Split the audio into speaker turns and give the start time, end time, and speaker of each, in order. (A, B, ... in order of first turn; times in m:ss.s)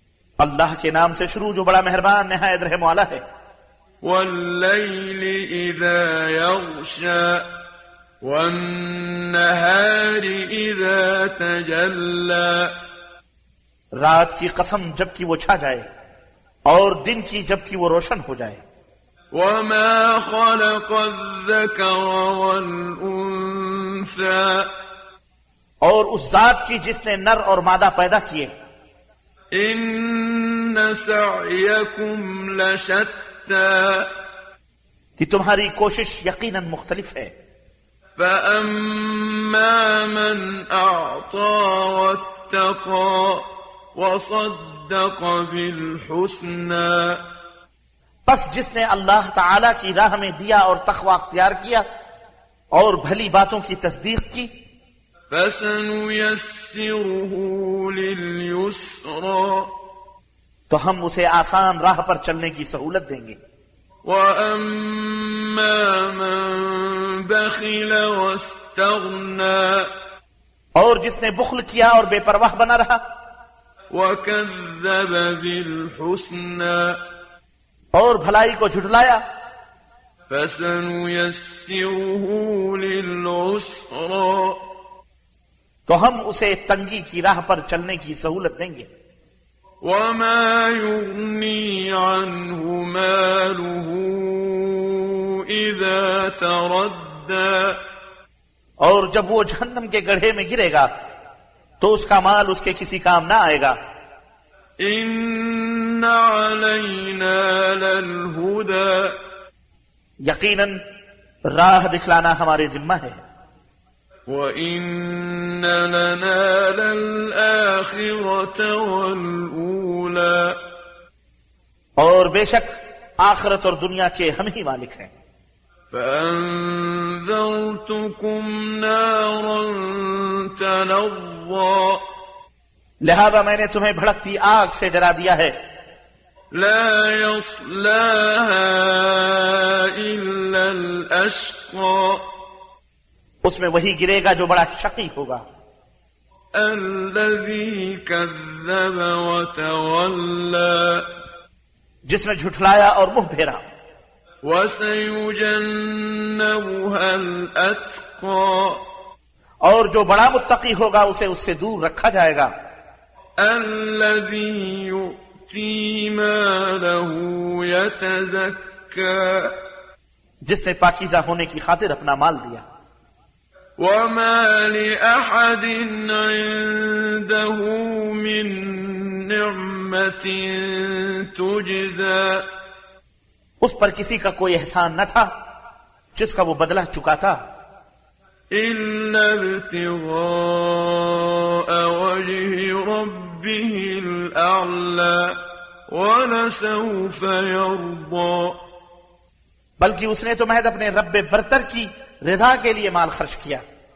0:00.4-0:03.2 A
0:04.0-0:07.4 B
0:08.2-0:12.7 B
0:14.0-0:15.8 A
0:16.7-0:18.6 A
0:19.3-0:24.7 B
0:25.8-0:28.5 A
0:29.5-0:34.1 B
0:35.2-0:37.3 A
0:38.2-0:47.2 B
0:48.3-0:51.8 A
0:52.7-0:54.5 A
0:55.3-0:59.7 B
1:00.7-1:03.4 A
1:04.0-1:09.9 B
1:10.8-1:13.0 A
1:13.9-1:17.0 B
1:18.0-1:19.2 A
1:20.3-1:24.6 B
1:25.9-1:28.9 A
1:29.8-1:37.8 B
1:38.8-1:40.9 A
1:41.8-1:43.7 A
1:44.8-1:49.2 B
1:50.2-1:50.8 A
1:51.5-1:53.2 A
1:54.3-2:00.6 B
2:02.0-2:05.1 A
2:05.9-2:12.0 B
2:13.0-2:15.5 A
2:16.5-2:22.2 B
2:23.4-2:25.4 A
2:26.5-2:31.0 B
2:32.0-2:33.6 A
2:34.4-2:38.8 B
2:39.6-2:42.5 A
2:43.4-2:49.5 B
2:50.4-2:52.6 A
2:53.8-3:02.4 B
3:03.6-3:05.3 A
3:06.2-3:07.4 A
3:08.5-3:15.4 B
3:15.9-3:18.6 B
3:19.8-3:23.6 A